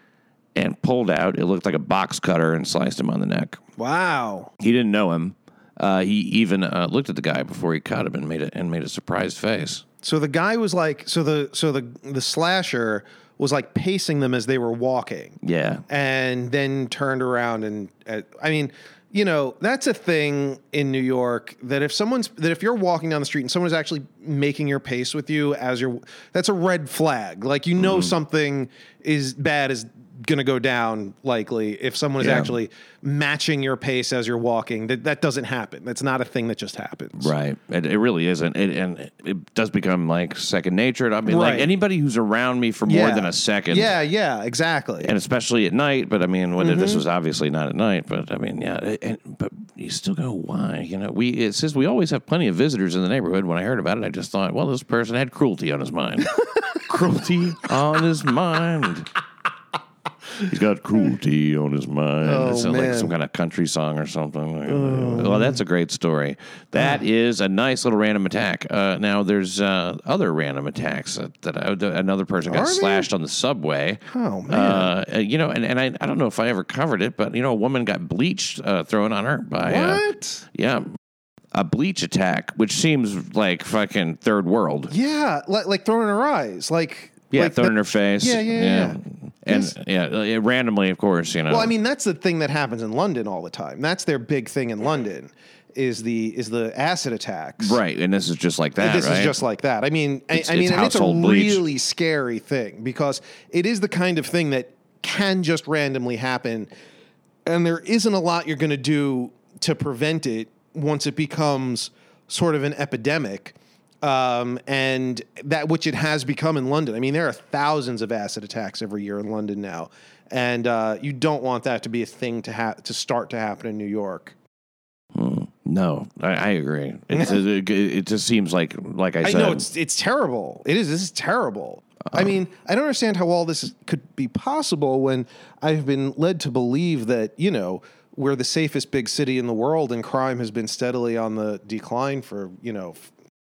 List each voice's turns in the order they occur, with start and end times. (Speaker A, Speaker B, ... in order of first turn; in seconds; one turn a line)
Speaker A: 0.5-3.6
Speaker B: 3.8-4.5
Speaker A: 4.6-9.8
Speaker B: 10.0-15.4
Speaker A: 15.4-15.8
Speaker B: 15.9-37.3
Speaker A: 27.8-28.1
Speaker A: 32.2-32.5
Speaker A: 37.2-43.9
Speaker B: 41.2-41.7
Speaker B: 42.9-45.1
Speaker A: 45.0-59.1
Speaker B: 46.6-47.0
Speaker A: 60.4-80.9
Speaker B: 62.2-63.1
Speaker B: 64.7-65.6
Speaker B: 66.7-67.0
Speaker B: 72.5-73.1
Speaker B: 74.1-74.9
Speaker B: 79.6-80.4
Speaker A: 81.5-84.9
Speaker B: 84.9-89.7
Speaker A: 87.3-91.7
Speaker B: 91.5-97.8
Speaker A: 97.6-99.3
Speaker B: 98.8-106.7
Speaker A: 100.3-101.6
Speaker B: 107.4-124.3
Speaker A: 125.1-129.6
Speaker B: 129.2-143.1